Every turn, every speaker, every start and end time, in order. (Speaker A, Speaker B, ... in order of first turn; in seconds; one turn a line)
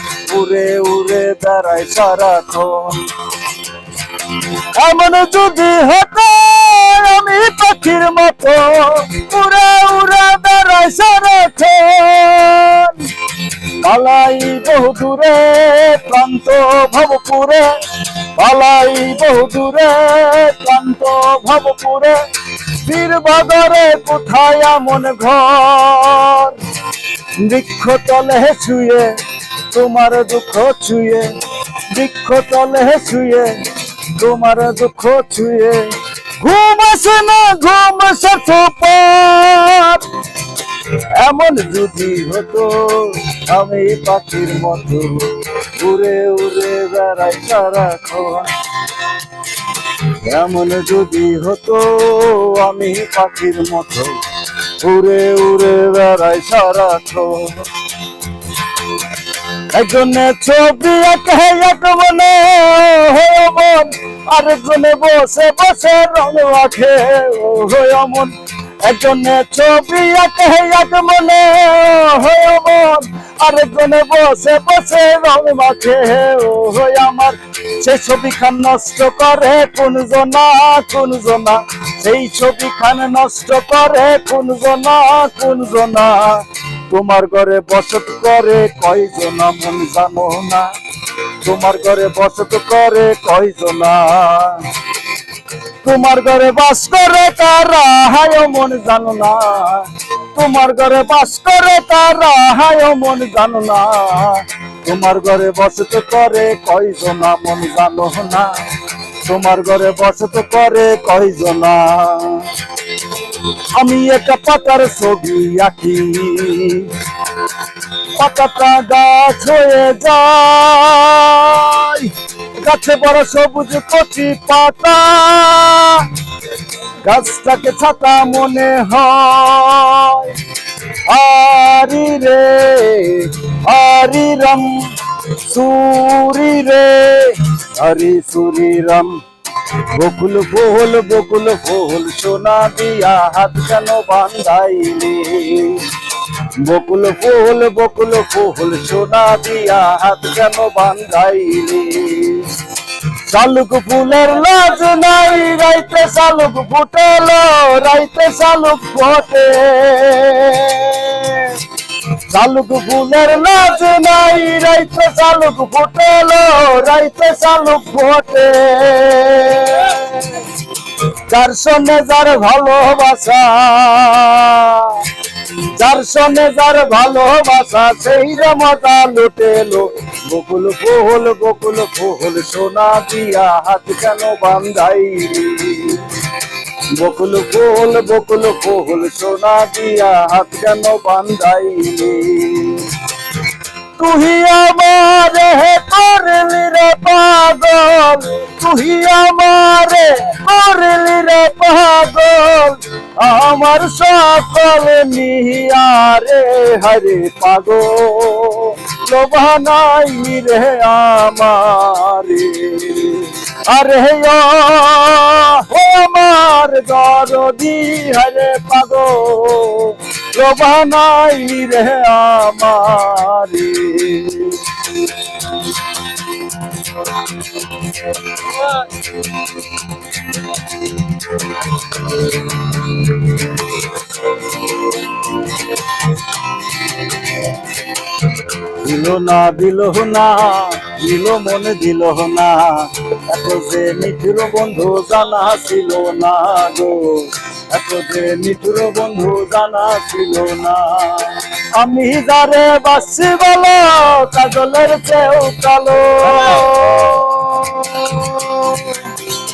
Speaker A: 0.3-3.1
Speaker A: 4.3-17.7
Speaker A: 18.4-22.2
Speaker A: 22.7-26.6
Speaker A: 27.4-29.1
Speaker A: 29.7-31.3
Speaker A: 31.9-33.6
Speaker A: 34.1-40.1
Speaker A: 40.8-48.5
Speaker A: 50.0-54.2
Speaker A: 54.8-57.7
Speaker A: 59.6-90.7
Speaker A: 91.4-94.7
Speaker A: 95.8-108.5
Speaker A: 109.2-112.5
Speaker A: 113.8-117.0
Speaker A: 118.2-126.2
Speaker A: 127.0-130.4
Speaker A: 131.1-145.9
Speaker A: 146.6-152.5
Speaker A: 153.3-170.5
Speaker A: 171.0-175.1
Speaker A: 175.7-186.1
Speaker A: 186.9-193.0
Speaker A: 194.0-225.1
Speaker A: 238.5-258.9